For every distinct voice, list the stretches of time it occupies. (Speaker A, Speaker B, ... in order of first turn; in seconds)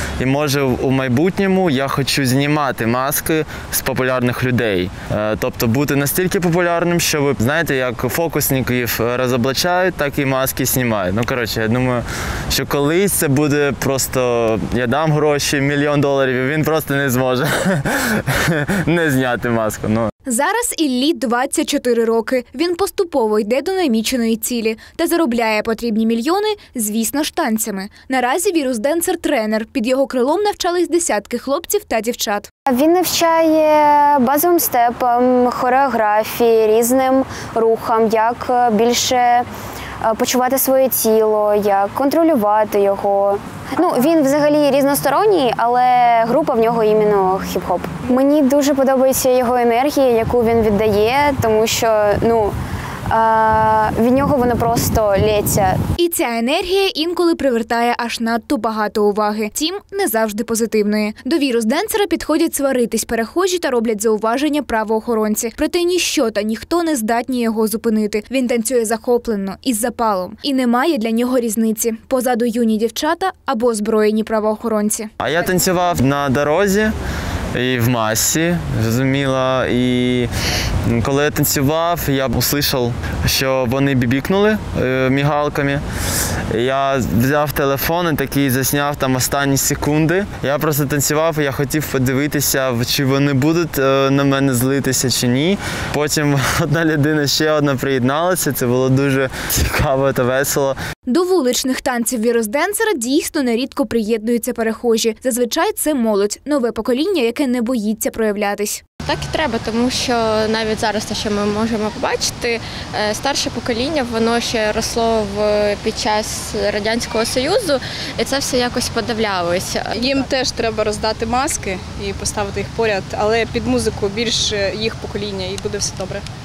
Speaker A: 0.2-20.1, 75.2-76.9, 77.5-80.3, 80.9-85.8, 86.5-100.8
Speaker B: 20.2-32.5, 56.0-75.1, 101.1-108.8
Speaker C: 32.7-39.5, 40.0-52.5, 53.1-55.8
Speaker D: 109.0-120.3
Speaker E: 119.9-126.2